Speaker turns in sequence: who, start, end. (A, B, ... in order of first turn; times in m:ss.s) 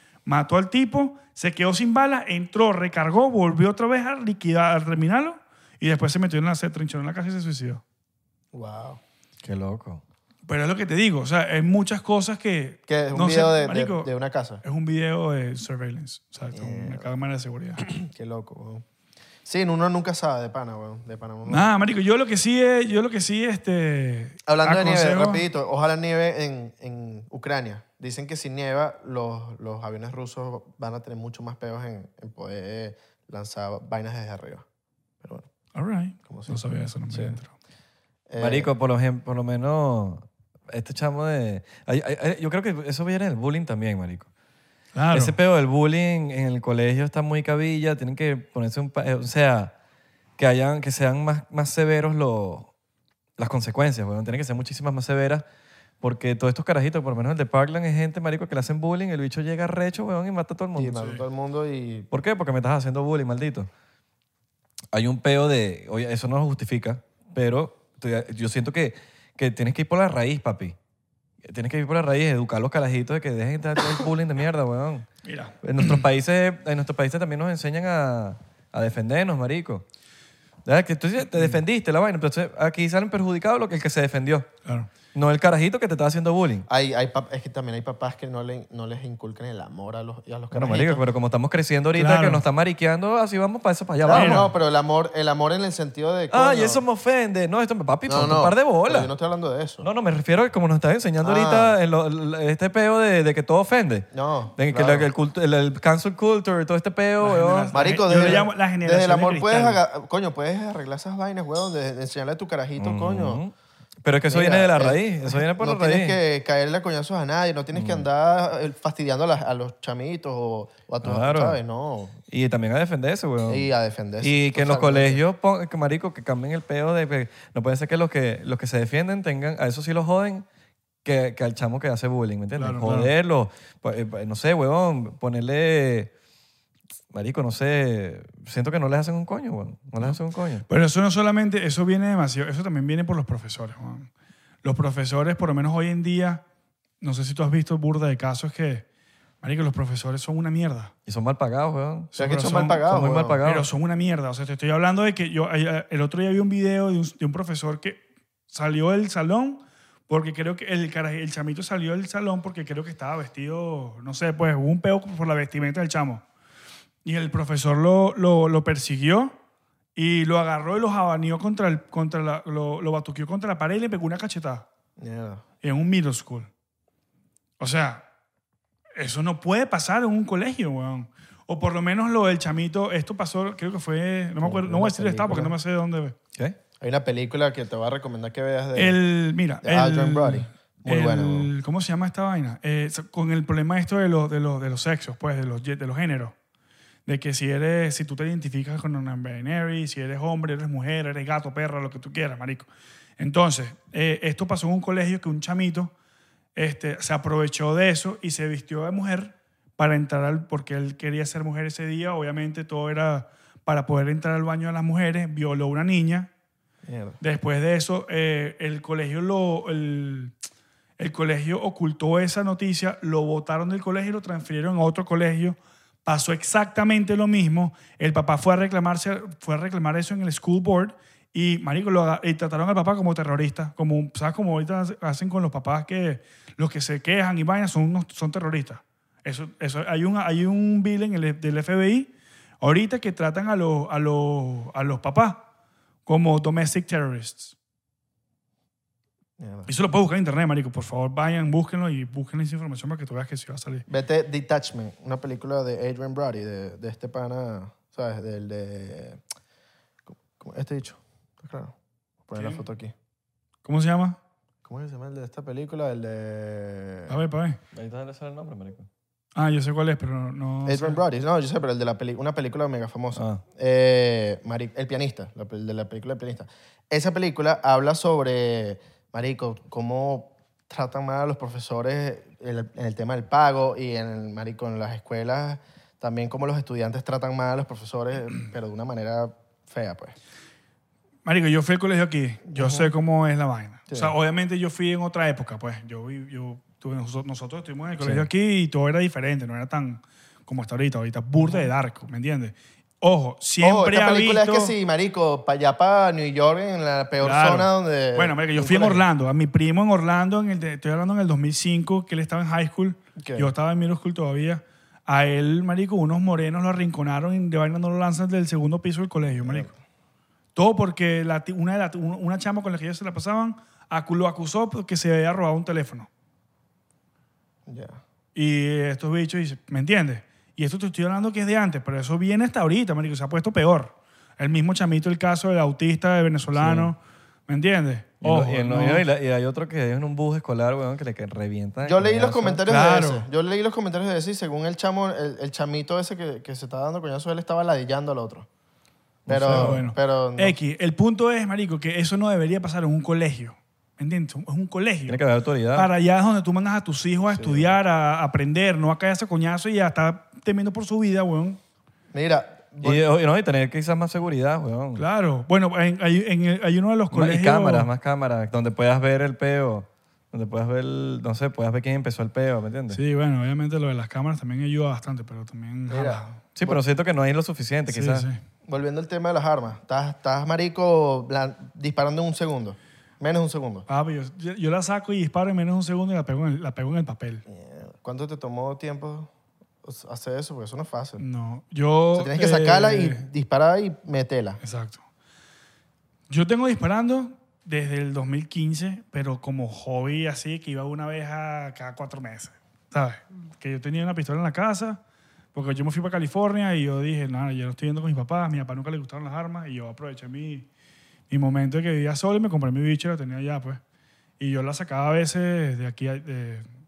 0:00.2-0:07.8 A
0:08.5-0:09.0 B
0:09.4-0:10.0 C
0:10.4-0:14.1 A
0:12.9-0:14.6 B
0:14.6-0:17.9 A
0:16.5-0:17.1 B
0:17.8-0:18.8 B
0:19.4-0:21.7 B
0:21.5-0:25.4 A
0:24.4-0:34.6 B
0:35.7-0:37.5 A
0:36.2-0:37.4 B
0:38.3-0:38.7 B
0:38.4-0:44.3 C
0:44.9-0:45.4 A
0:45.1-0:49.7 C
0:50.4-0:52.7 C
0:53.4-0:55.4 C
0:56.0-1:01.1 C
1:00.7-1:02.1 B
1:02.1-1:03.7 C
1:04.9-1:10.8 C
1:11.4-1:15.1 C
1:15.2-1:16.0 A
1:15.6-1:19.8 C
1:20.6-1:24.5 C
1:24.6-1:24.9 A
1:25.1-1:26.7 C
1:26.7-1:31.0 B
1:30.5-1:34.5 C
1:32.0-1:32.4 A
1:34.0-1:36.8 B
1:34.1-1:34.5 A
1:36.3-1:39.1 C
1:38.1-1:39.9 B
1:39.8-1:47.7 C
1:41.2-1:41.7 B
1:44.1-1:45.1 B
1:47.2-1:49.8 A
1:47.7-1:53.4 B
1:52.8-1:53.5 C
1:54.0-1:56.2 C
1:54.3-2:02.2 B
1:57.7-1:58.0 C
2:01.0-2:01.6 C
2:02.3-2:03.7 C
2:03.5-2:05.2 B
2:04.2-2:10.4 C
2:11.0-2:16.1 C
2:12.6-2:13.1 A
2:17.1-2:20.6 C
2:20.7-2:24.1 A
2:24.6-2:26.4 A
2:27.0-2:28.8 A
2:29.4-2:30.9 A
2:31.0-2:32.1 C
2:32.1-2:32.8 A
2:32.2-2:33.4 B
2:32.7-2:33.7 C
2:33.4-2:46.2 A
2:47.0-2:49.3 A
2:49.9-2:54.6 A
2:55.0-2:55.4 B
2:55.6-2:56.5 A
2:57.6-2:58.0 A
2:59.0-3:06.1 A
3:04.4-3:05.5 B
3:06.8-3:09.0 B
3:08.8-3:16.3 A
3:09.6-3:11.5 B
3:17.0-3:25.9 A
3:26.6-3:36.3 A
3:36.8-3:37.2 B
3:37.2-3:40.3 A
3:41.0-4:05.4 A
4:06.0-4:07.5 A
4:09.4-4:09.7 B
4:09.7-4:13.8 A
4:13.9-4:19.2 B
4:20.1-4:21.7 B
4:22.3-4:22.9 B
4:22.3-4:22.6 A
4:23.6-4:24.2 A
4:24.6-4:27.2 B
4:27.1-4:27.6 A
4:27.7-4:28.9 C
4:29.3-4:31.0 A
4:30.6-4:50.2 B
4:33.2-4:33.4 C
4:51.2-5:04.7 A
4:52.5-4:52.9 B
4:53.9-4:54.1 B
5:01.4-5:01.7 B
5:03.6-5:09.0 B
5:07.2-5:19.7 A
5:13.2-5:13.5 B
5:19.2-5:19.8 B
5:20.6-5:26.1 A
5:27.7-5:28.0 B
5:28.3-5:39.0 A
5:36.5-5:36.9 B
5:38.2-5:42.6 C
5:41.8-5:48.5 B
5:42.7-5:43.3 A
5:49.2-5:49.8 C
5:49.3-5:50.6 B
5:49.5-5:55.2 A
5:55.1-5:55.9 C
5:55.7-6:01.6 A
5:57.3-5:57.7 B
6:02.1-6:03.0 B
6:02.8-6:05.0 C
6:05.0-6:07.9 A
6:07.1-6:13.0 C
6:12.9-6:16.4 A
6:15.9-6:16.8 B
6:16.5-6:18.3 C
6:17.9-6:18.4 A
6:18.7-6:23.9 B
6:23.9-6:27.4 A
6:27.5-6:29.3 B
6:29.8-6:31.2 B
6:31.2-6:33.2 A
6:32.2-6:34.6 B
6:34.6-6:35.0 A
6:36.3-6:45.0 A
6:45.5-6:50.7 A
6:51.3-6:53.8 A
6:54.4-6:56.7 A